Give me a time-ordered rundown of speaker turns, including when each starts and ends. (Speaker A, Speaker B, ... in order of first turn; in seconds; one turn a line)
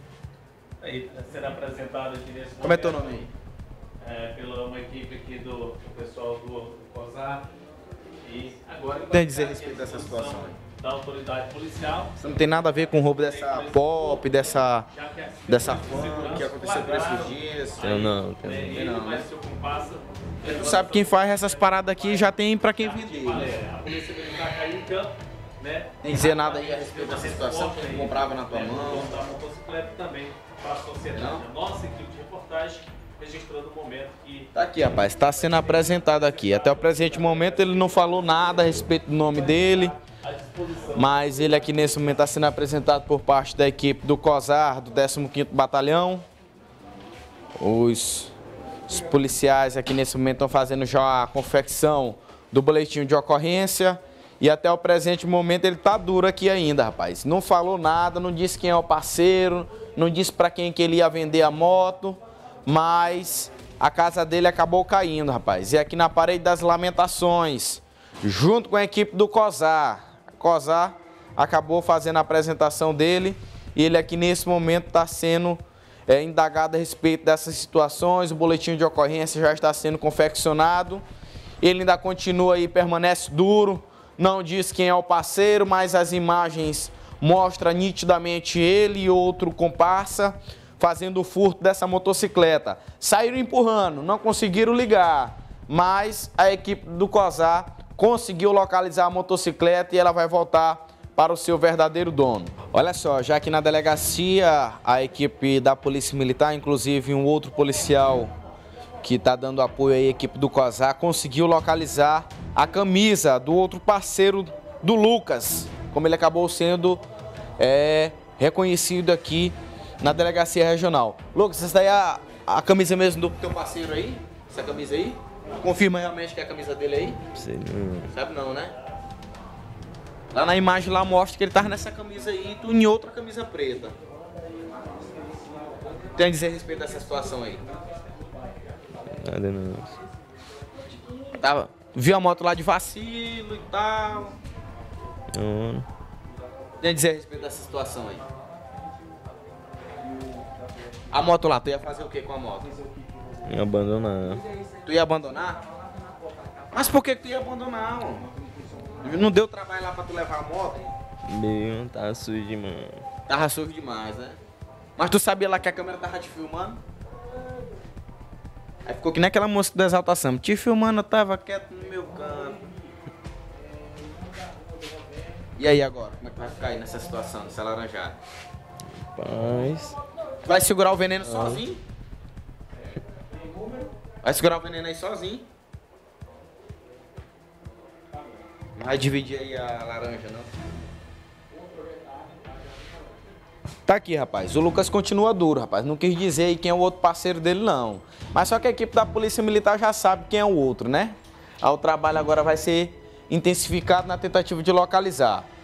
Speaker A: 0.8-3.3
Speaker B: 2.6-3.3
Speaker A: 4.0-7.4
Speaker A: 8.2-12.3
Speaker B: 9.1-10.6
Speaker B: 12.2-14.9
Speaker A: 12.9-34.5
Speaker B: 15.5-17.9
Speaker C: 17.8-18.8
Speaker B: 18.7-19.2
Speaker B: 20.4-23.5
Speaker B: 26.0-29.1
Speaker B: 31.1-31.4
Speaker B: 34.5-39.9
Speaker A: 35.4-36.8
Speaker A: 40.1-41.2
Speaker B: 40.9-46.2
Speaker B: 47.6-48.3
Speaker B: 48.9-81.0
Speaker B: 81.6-108.3
Speaker B: 109.0-117.0
Speaker B: 117.6-127.2
Speaker C: 127.3-128.1
Speaker B: 128.1-128.8
Speaker B: 130.3-133.9
Speaker B: 136.1-137.6
Speaker C: 139.1-140.0
Speaker B: 141.3-144.4
Speaker C: 145.3-145.9
Speaker B: 146.8-148.2
Speaker B: 151.1-152.7
Speaker C: 153.4-154.4
Speaker B: 154.8-155.6
Speaker B: 156.7-158.2
Speaker B: 159.0-160.8
Speaker C: 161.2-163.0
Speaker B: 163.3-164.4
Speaker B: 165.0-166.8
Speaker B: 168.8-172.6
Speaker B: 175.6-178.2
Speaker C: 178.9-180.0
Speaker B: 180.4-181.8
Speaker C: 181.2-181.6
Speaker B: 184.2-185.4
Speaker B: 188.8-190.5
Speaker B: 193.9-205.4